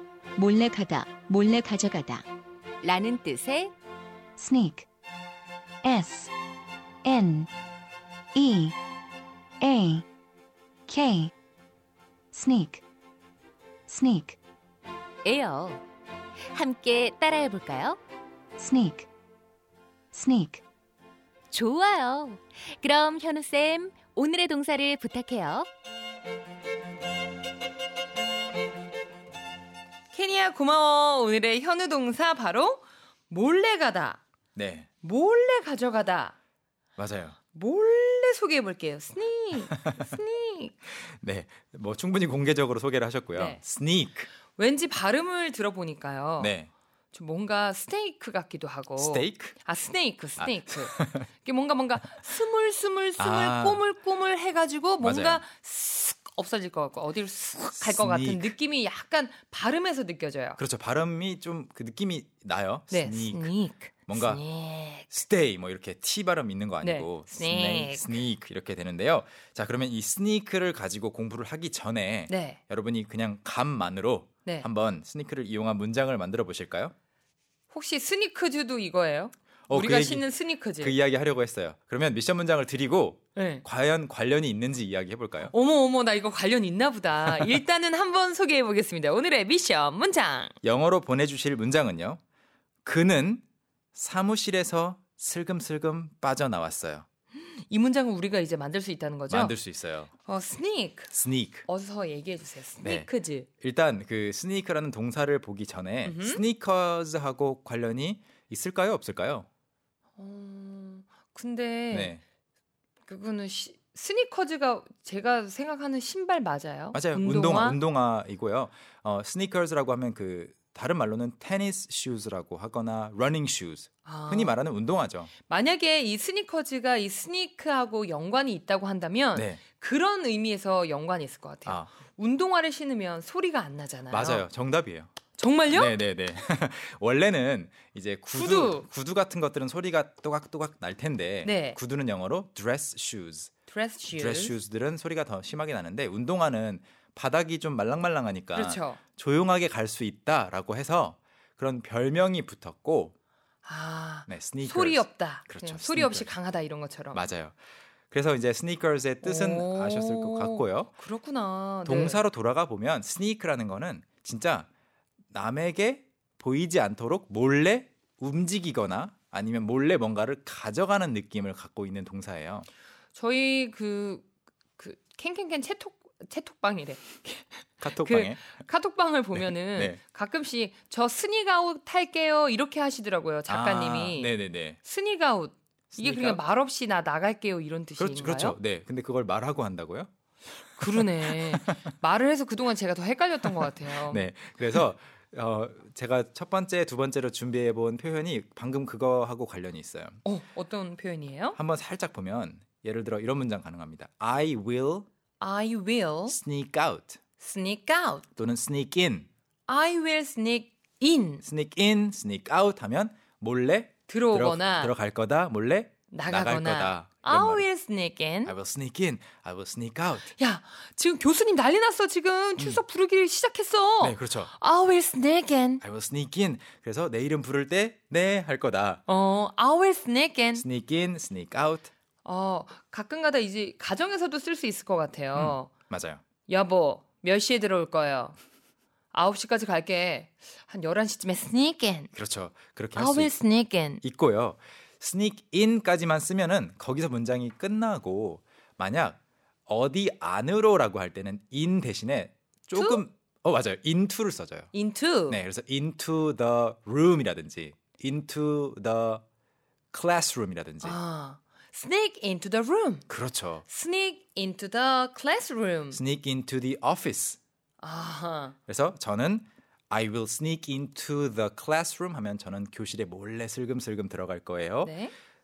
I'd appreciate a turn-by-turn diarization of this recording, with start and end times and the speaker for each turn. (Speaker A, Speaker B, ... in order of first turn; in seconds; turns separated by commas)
Speaker A: 0.4-1.9, Speaker B: 1.7-2.2, Speaker B: 2.8-3.7, Speaker A: 4.4-4.9, Speaker A: 5.8-6.3, Speaker A: 7.0-7.5, Speaker A: 8.3-8.8, Speaker A: 9.6-10.1, Speaker A: 10.9-11.3, Speaker A: 12.3-12.8, Speaker A: 13.9-14.4, Speaker B: 15.2-15.8, Speaker B: 16.5-18.0, Speaker A: 18.6-19.1, Speaker A: 20.1-20.6, Speaker B: 21.5-25.7, Speaker C: 30.1-34.2, Speaker D: 34.5-34.9, Speaker C: 35.0-36.4, Speaker D: 37.0-37.4, Speaker C: 37.5-40.8, Speaker D: 39.7-40.1, Speaker D: 40.9-44.3, Speaker C: 43.4-43.6, Speaker C: 44.5-46.5, Speaker D: 46.4-46.7, Speaker C: 47.1-60.6, Speaker D: 49.0-49.6, Speaker D: 50.4-51.3, Speaker D: 53.2-53.9, Speaker D: 55.0-55.4, Speaker D: 57.7-58.5, Speaker D: 60.6-63.5, Speaker C: 62.9-65.1, Speaker D: 64.1-64.5, Speaker D: 65.1-76.9, Speaker C: 66.8-68.2, Speaker C: 72.3-72.6, Speaker C: 77.7-81.0, Speaker D: 79.7-85.5, Speaker C: 83.4-83.6, Speaker C: 85.5-90.5, Speaker D: 90.6-92.2, Speaker D: 92.8-97.1, Speaker C: 97.3-99.6, Speaker D: 99.3-100.1, Speaker C: 100.2-101.1, Speaker D: 101.1-101.7, Speaker C: 101.7-103.5, Speaker D: 102.8-103.1, Speaker D: 103.6-109.5, Speaker C: 106.0-106.4, Speaker C: 110.2-112.2, Speaker D: 111.9-112.2, Speaker C: 113.0-117.8, Speaker D: 116.9-125.3, Speaker C: 124.0-124.6, Speaker C: 125.5-134.5, Speaker D: 129.3-129.6, Speaker D: 131.7-131.9, Speaker D: 134.1-135.1, Speaker C: 135.4-136.0, Speaker D: 135.7-143.5, Speaker C: 138.3-138.9, Speaker C: 141.4-141.8, Speaker C: 143.7-144.6, Speaker D: 144.1-153.1, Speaker C: 148.5-149.0, Speaker C: 153.6-157.3, Speaker D: 154.3-156.3, Speaker D: 157.1-157.6, Speaker D: 158.1-160.9, Speaker C: 159.2-162.2, Speaker D: 161.8-164.7, Speaker D: 165.3-172.7, Speaker C: 173.1-174.3, Speaker C: 174.8-177.4, Speaker D: 177.8-178.5, Speaker C: 178.0-188.6, Speaker D: 179.4-180.0, Speaker D: 183.5-184.8, Speaker D: 185.9-186.4, Speaker D: 188.0-190.1, Speaker D: 190.8-191.8, Speaker C: 190.8-194.2, Speaker D: 193.6-200.2, Speaker C: 200.2-201.6, Speaker D: 201.6-205.1, Speaker C: 205.4-206.4, Speaker D: 206.3-207.2, Speaker C: 207.4-208.2, Speaker D: 208.4-209.3, Speaker C: 209.7-211.4, Speaker D: 211.4-217.7, Speaker C: 214.1-214.9, Speaker C: 216.1-218.6, Speaker D: 218.4-220.3, Speaker C: 220.3-225.8, Speaker D: 222.6-222.8, Speaker D: 224.0-224.5, Speaker D: 225.8-229.0, Speaker C: 229.1-230.7, Speaker D: 230.5-231.9, Speaker C: 232.2-235.7, Speaker D: 235.3-236.2, Speaker C: 236.5-238.4, Speaker C: 239.1-242.1, Speaker D: 242.1-243.3, Speaker C: 242.9-244.0, Speaker D: 244.0-254.7, Speaker C: 252.8-253.0, Speaker C: 254.7-255.4, Speaker D: 255.3-259.2, Speaker D: 259.9-261.0, Speaker C: 260.8-263.1, Speaker D: 263.1-263.6, Speaker C: 263.7-266.0, Speaker D: 265.9-267.4, Speaker C: 267.8-268.6, Speaker D: 268.7-275.0, Speaker C: 274.8-275.1